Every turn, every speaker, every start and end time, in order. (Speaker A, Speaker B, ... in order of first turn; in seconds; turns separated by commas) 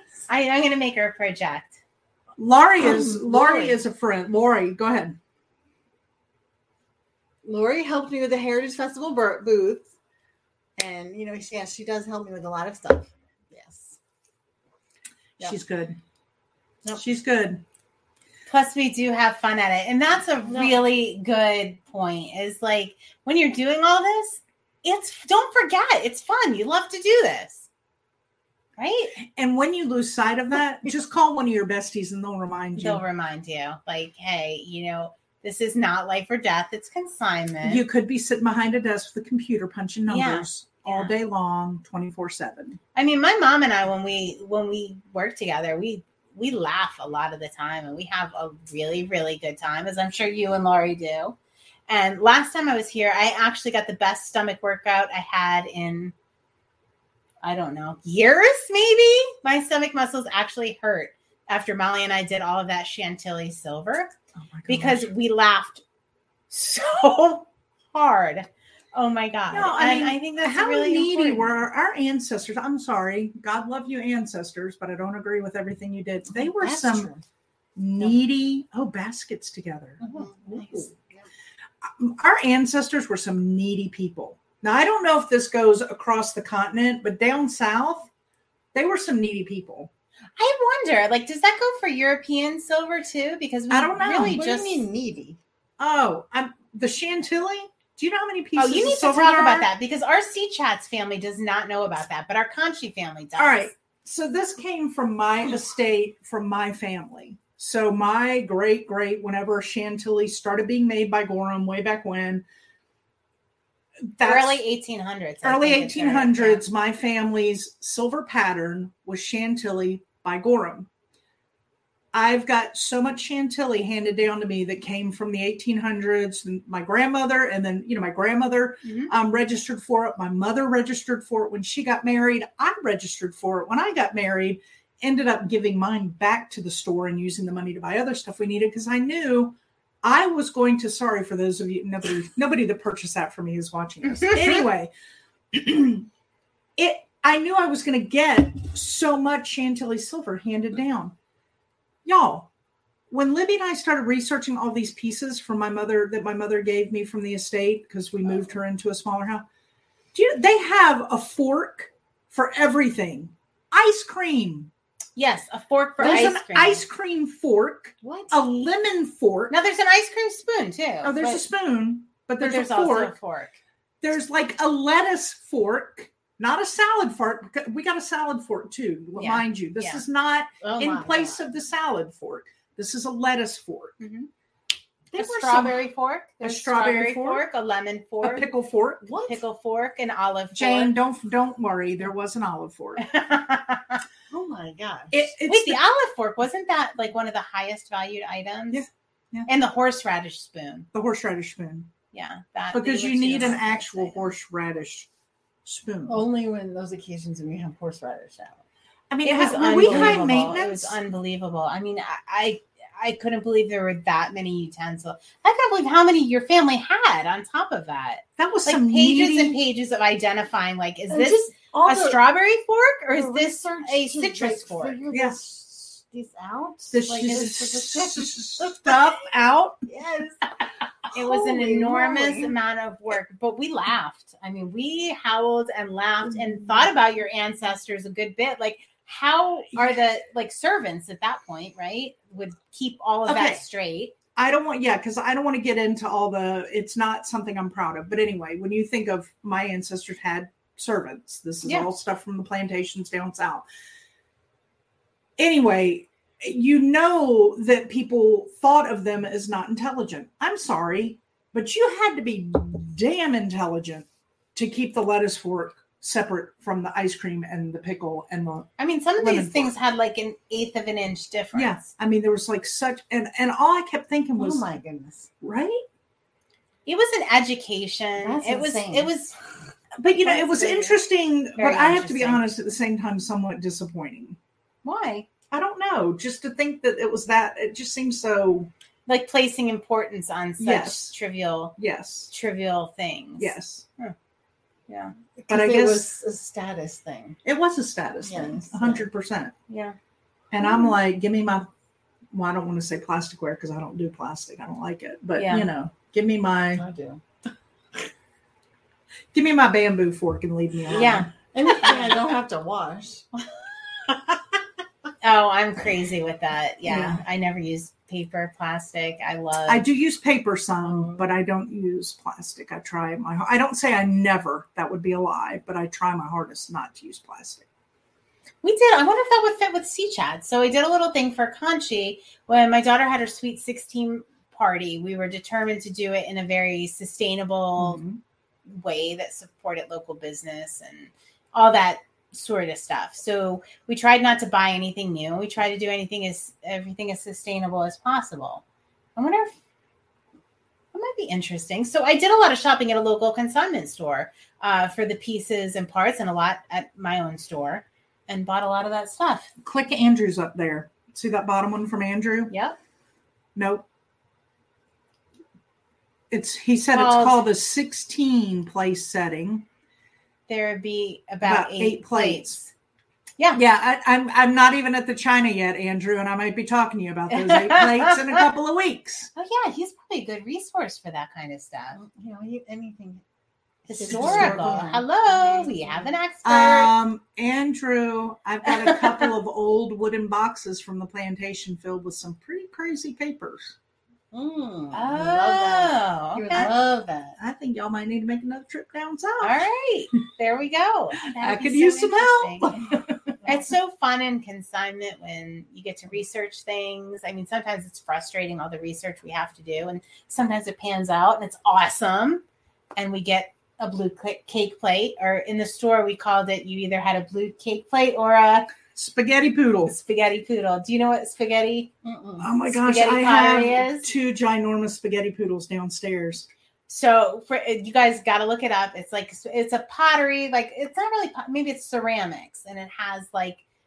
Speaker A: 0.3-1.8, Speaker B: 2.4-5.2, Speaker C: 2.8-3.8, Speaker C: 7.4-9.9, Speaker C: 10.8-14.0, Speaker B: 15.4-16.0, Speaker B: 17.0-17.6, Speaker A: 18.5-27.7, Speaker C: 20.5-20.8, Speaker A: 28.8-29.1, Speaker B: 29.3-33.0, Speaker A: 32.8-37.8, Speaker B: 37.6-42.8, Speaker A: 40.1-41.1, Speaker A: 43.0-51.4, Speaker A: 51.9-56.1, Speaker A: 57.4-64.1, Speaker B: 64.4-65.1, Speaker A: 64.7-65.8, Speaker A: 66.5-71.5, Speaker B: 69.5-77.1, Speaker C: 76.3-77.2, Speaker B: 77.8-80.9, Speaker C: 80.0-81.3, Speaker B: 81.8-88.1, Speaker B: 88.7-89.9, Speaker A: 90.4-94.8, Speaker B: 93.7-94.4, Speaker C: 94.0-95.4, Speaker B: 95.8-99.7, Speaker A: 98.6-103.7, Speaker B: 103.4-112.4, Speaker B: 114.2-114.6, Speaker A: 114.2-116.7, Speaker B: 115.4-120.9, Speaker B: 122.1-144.9, Speaker A: 128.8-129.1, Speaker A: 144.2-144.6, Speaker B: 145.5-146.1, Speaker B: 146.8-151.1, Speaker B: 152.1-152.5, Speaker B: 153.1-159.4, Speaker B: 160.1-164.7, Speaker A: 165.2-166.8, Speaker B: 166.0-169.5, Speaker C: 168.0-168.6, Speaker A: 169.5-171.2, Speaker B: 171.0-173.2, Speaker A: 172.4-173.6, Speaker B: 174.0-183.9, Speaker A: 179.2-180.0, Speaker C: 180.6-181.4, Speaker A: 184.0-184.3, Speaker B: 185.1-185.8, Speaker A: 185.2-188.5, Speaker B: 186.4-187.4, Speaker B: 188.2-189.3, Speaker A: 189.3-190.9, Speaker B: 190.5-193.1, Speaker A: 193.0-194.0, Speaker C: 194.3-195.2, Speaker B: 195.1-195.8, Speaker A: 195.4-198.9, Speaker B: 198.7-199.5, Speaker A: 199.5-200.9, Speaker B: 200.9-201.9, Speaker A: 202.1-204.2, Speaker B: 202.7-205.1, Speaker B: 205.7-206.2, Speaker C: 206.1-208.6, Speaker B: 209.1-211.0, Speaker A: 209.2-225.0, Speaker C: 209.6-210.3, Speaker B: 218.4-219.6, Speaker C: 221.1-222.2, Speaker C: 223.1-229.2, Speaker B: 225.1-225.4, Speaker B: 226.9-229.8, Speaker C: 229.9-230.5, Speaker C: 231.1-232.6, Speaker A: 231.1-244.2, Speaker B: 243.3-243.6, Speaker B: 244.4-253.7, Speaker B: 255.4-269.7, Speaker A: 268.8-271.9, Speaker B: 271.5-274.6, Speaker C: 274.4-275.3, Speaker B: 275.4-275.8, Speaker A: 276.9-279.3, Speaker C: 278.2-279.1, Speaker B: 280.0-284.4, Speaker A: 280.2-281.0, Speaker A: 281.6-282.4, Speaker A: 284.8-285.3, Speaker B: 285.5-288.7, Speaker A: 289.1-291.8, Speaker B: 290.6-291.2, Speaker B: 291.8-292.3, Speaker A: 292.3-294.1, Speaker B: 293.4-293.9, Speaker A: 294.9-295.1, Speaker C: 295.4-297.4, Speaker B: 295.5-296.2, Speaker B: 297.4-299.5, Speaker C: 298.2-299.1, Speaker A: 299.7-300.0, Speaker B: 300.5-301.7, Speaker B: 302.3-306.8, Speaker A: 305.4-305.7, Speaker C: 306.7-307.2, Speaker B: 309.3-311.3, Speaker C: 310.9-313.3, Speaker A: 310.9-311.3, Speaker A: 315.2-319.9, Speaker B: 316.9-317.2, Speaker B: 319.7-327.6, Speaker C: 320.9-321.2, Speaker A: 328.6-338.0, Speaker B: 337.8-338.2, Speaker A: 338.7-348.6, Speaker A: 349.2-349.6, Speaker A: 350.9-359.5, Speaker B: 359.6-362.5, Speaker A: 362.5-362.8, Speaker B: 363.6-363.8, Speaker B: 366.3-369.6, Speaker A: 366.9-367.5, Speaker A: 370.5-372.7, Speaker B: 371.4-372.6, Speaker B: 373.6-379.3, Speaker A: 377.3-378.4, Speaker A: 379.4-382.0, Speaker C: 381.9-383.2, Speaker A: 383.9-386.9, Speaker C: 383.9-386.1, Speaker B: 384.1-384.9, Speaker B: 386.4-393.8, Speaker A: 388.7-389.3, Speaker C: 394.3-397.4, Speaker A: 394.9-396.7, Speaker B: 396.6-396.8, Speaker B: 397.4-399.6, Speaker A: 399.4-402.8, Speaker B: 401.4-403.4, Speaker A: 403.4-412.4, Speaker A: 412.9-418.7, Speaker B: 418.9-420.0, Speaker A: 419.9-421.9, Speaker C: 422.0-422.5, Speaker B: 422.4-426.5, Speaker A: 422.7-424.1, Speaker A: 426.9-433.6